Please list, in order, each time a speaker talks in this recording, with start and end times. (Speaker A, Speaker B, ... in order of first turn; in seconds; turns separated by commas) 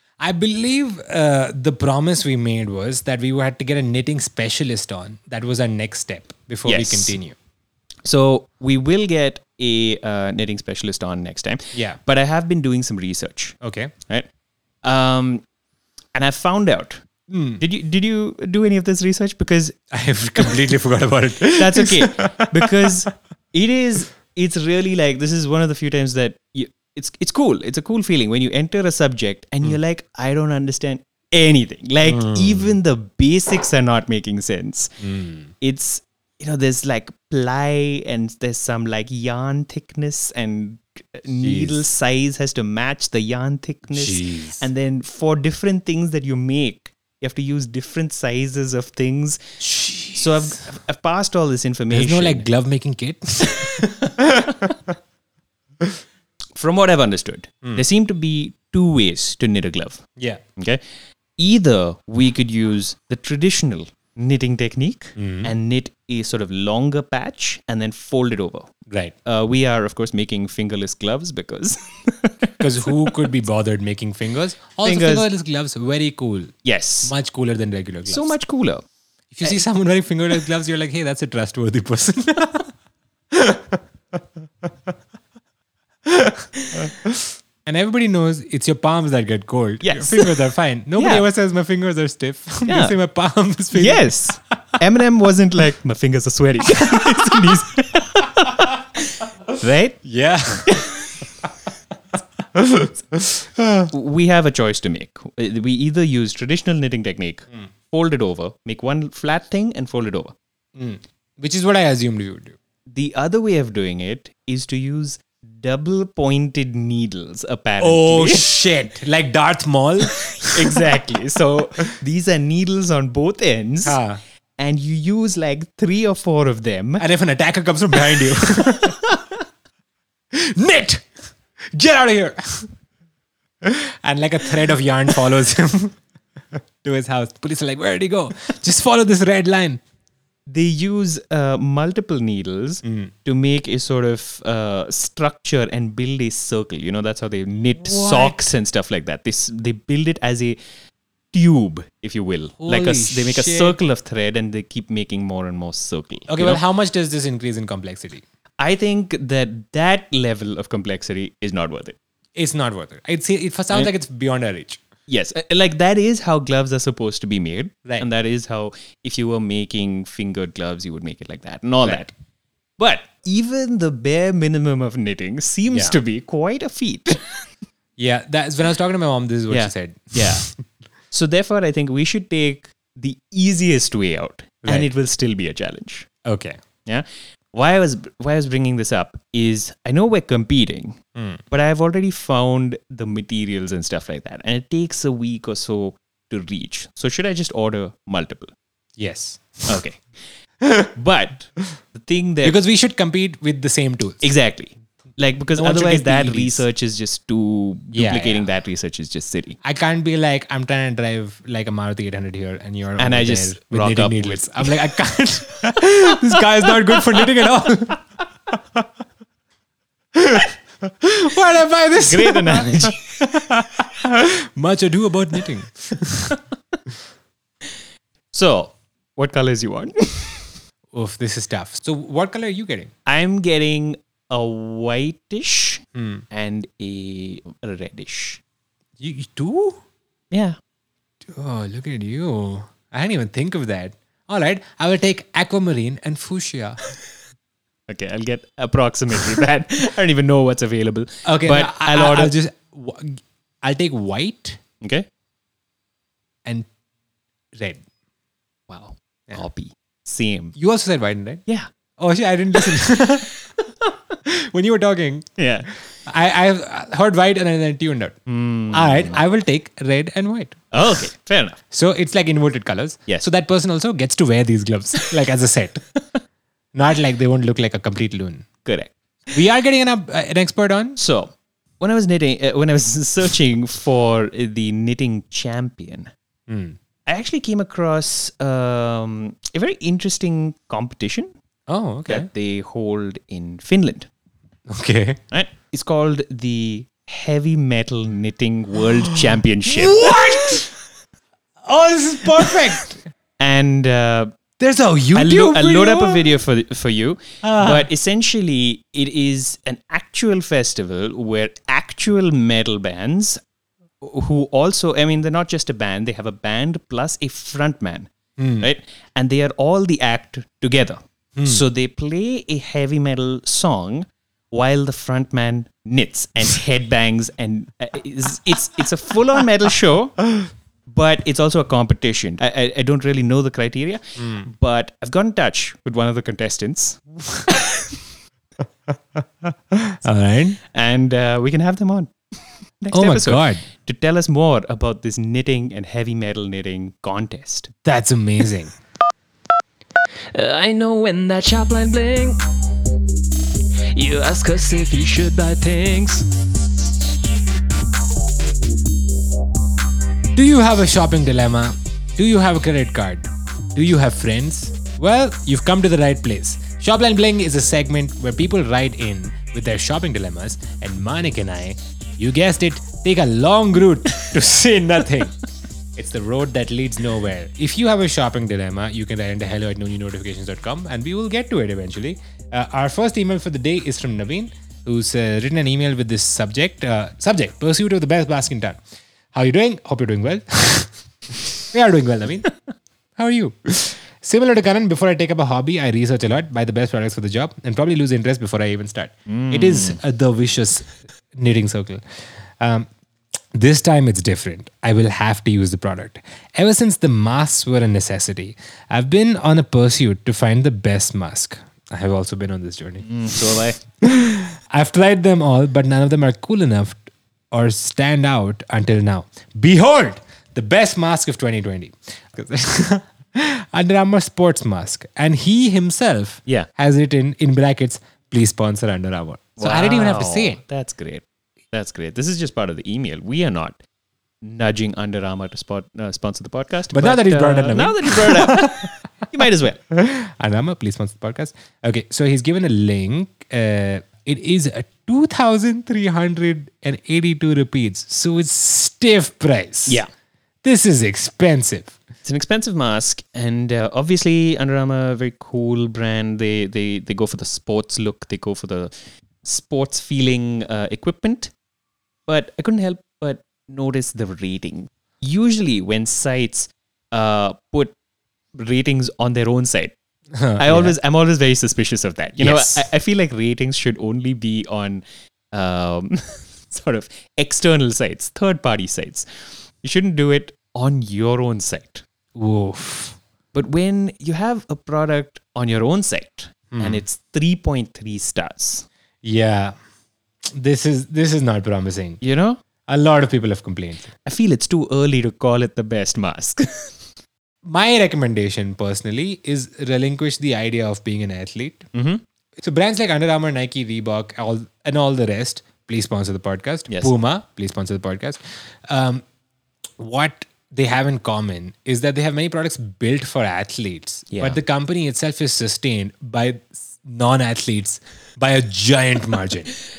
Speaker A: 0.2-7.3, Speaker B: 6.7-7.2, Speaker B: 8.0-13.6, Speaker A: 11.7-12.0, Speaker A: 13.6-13.9, Speaker B: 14.8-15.4, Speaker B: 16.1-17.0, Speaker A: 17.3-17.6, Speaker B: 17.6-19.8, Speaker A: 19.9-23.0, Speaker B: 21.5-35.0, Speaker A: 32.0-32.8, Speaker A: 35.0-35.5, Speaker B: 35.6-49.4, Speaker A: 41.3-41.8, Speaker A: 43.9-44.6, Speaker A: 49.6-50.6, Speaker B: 50.1-52.5, Speaker A: 51.9-54.9, Speaker B: 56.5-60.0, Speaker B: 61.4-68.7, Speaker A: 65.2-65.5, Speaker B: 69.2-73.1, Speaker A: 72.6-78.3, Speaker B: 74.8-75.3, Speaker B: 76.6-77.1, Speaker B: 78.1-78.8, Speaker A: 79.3-82.7, Speaker A: 83.3-84.7, Speaker A: 86.0-94.2, Speaker B: 89.8-90.4, Speaker B: 91.0-91.2, Speaker B: 92.7-93.0, Speaker B: 93.7-100.0, Speaker A: 96.8-97.6, Speaker A: 100.0-100.8, Speaker B: 100.6-101.1, Speaker A: 102.5-103.9, Speaker B: 103.9-110.3, Speaker A: 110.8-112.5, Speaker B: 112.9-118.4, Speaker A: 117.8-120.8, Speaker B: 120.4-124.0, Speaker A: 123.8-124.2, Speaker B: 124.6-127.0, Speaker A: 127.0-129.0, Speaker A: 130.3-131.1, Speaker A: 131.7-132.7, Speaker A: 133.6-136.0, Speaker A: 136.5-139.8, Speaker B: 140.5-150.6, Speaker A: 142.8-143.1, Speaker A: 147.8-148.4, Speaker B: 151.3-156.6, Speaker A: 152.6-153.8, Speaker A: 156.3-158.2, Speaker B: 158.6-161.9, Speaker A: 162.3-164.8, Speaker B: 165.1-172.1, Speaker A: 171.8-172.1, Speaker B: 172.8-177.2, Speaker A: 175.7-176.0, Speaker A: 178.0-180.6, Speaker B: 179.5-180.5, Speaker B: 181.1-186.1, Speaker A: 186.2-186.6, Speaker B: 186.8-198.5, Speaker A: 191.2-191.4, Speaker A: 199.0-199.8, Speaker B: 199.7-200.0, Speaker A: 200.6-200.9, Speaker B: 200.9-202.6, Speaker A: 202.4-204.3, Speaker B: 204.2-209.6, Speaker A: 205.5-206.6, Speaker A: 207.9-208.4, Speaker A: 209.6-218.8, Speaker B: 213.0-214.7, Speaker A: 220.1-226.4, Speaker B: 222.0-223.0, Speaker B: 228.3-230.5, Speaker A: 230.9-232.9, Speaker B: 233.1-238.4, Speaker A: 235.9-236.2, Speaker A: 239.0-239.8, Speaker B: 240.3-240.6, Speaker A: 241.2-246.8, Speaker B: 247.9-252.3, Speaker A: 251.2-254.6, Speaker B: 254.8-255.1, Speaker A: 257.5-257.8, Speaker B: 258.7-260.6, Speaker A: 260.6-261.4, Speaker A: 262.0-263.3, Speaker A: 264.3-265.3, Speaker B: 265.4-265.7, Speaker A: 266.1-268.2, Speaker B: 268.3-269.2, Speaker A: 268.7-270.6, Speaker B: 270.7-271.6, Speaker A: 271.7-275.8, Speaker A: 276.7-278.5, Speaker B: 278.6-278.9, Speaker A: 279.3-281.0, Speaker B: 281.0-286.1, Speaker A: 286.5-286.8, Speaker B: 287.1-291.3, Speaker A: 291.7-292.3, Speaker B: 292.1-294.1, Speaker A: 294.7-295.2, Speaker B: 295.3-300.1, Speaker A: 299.7-300.7, Speaker A: 301.6-303.0, Speaker B: 303.4-304.3, Speaker A: 304.6-306.4, Speaker B: 305.1-313.4, Speaker A: 307.4-307.9, Speaker B: 314.0-330.3, Speaker A: 318.4-318.7, Speaker A: 321.3-321.6, Speaker B: 330.9-337.7, Speaker A: 334.2-334.5, Speaker A: 338.9-340.6, Speaker B: 340.7-342.1, Speaker B: 342.8-347.7, Speaker A: 342.9-343.6, Speaker A: 347.8-348.8, Speaker C: 350.3-352.4, Speaker C: 353.9-356.3, Speaker A: 360.3-375.4, Speaker A: 375.9-388.8, Speaker A: 389.3-390.9, Speaker A: 391.6-392.5, Speaker A: 393.2-402.0, Speaker B: 399.3-400.0, Speaker A: 402.6-402.9, Speaker A: 403.5-413.1, Speaker B: 413.0-413.8, Speaker A: 414.0-430.6, Speaker B: 429.6-433.8, Speaker B: 434.4-439.8, Speaker A: 436.9-438.9, Speaker A: 439.9-450.0, Speaker A: 450.6-451.9, Speaker B: 452.2-461.5, Speaker B: 462.3-467.9, Speaker B: 468.5-469.9, Speaker A: 470.3-471.0, Speaker B: 470.6-479.2, Speaker A: 472.4-472.9, Speaker B: 479.8-482.0, Speaker A: 482.3-483.2, Speaker B: 483.5-488.9, Speaker A: 486.7-487.0, Speaker A: 489.2-489.7, Speaker A: 490.4-492.2, Speaker B: 492.2-492.6, Speaker A: 492.9-494.1, Speaker B: 494.2-496.9, Speaker A: 497.6-501.9, Speaker B: 501.9-502.2, Speaker A: 502.6-509.2, Speaker B: 506.9-507.1, Speaker A: 510.0-519.7, Speaker B: 514.3-514.6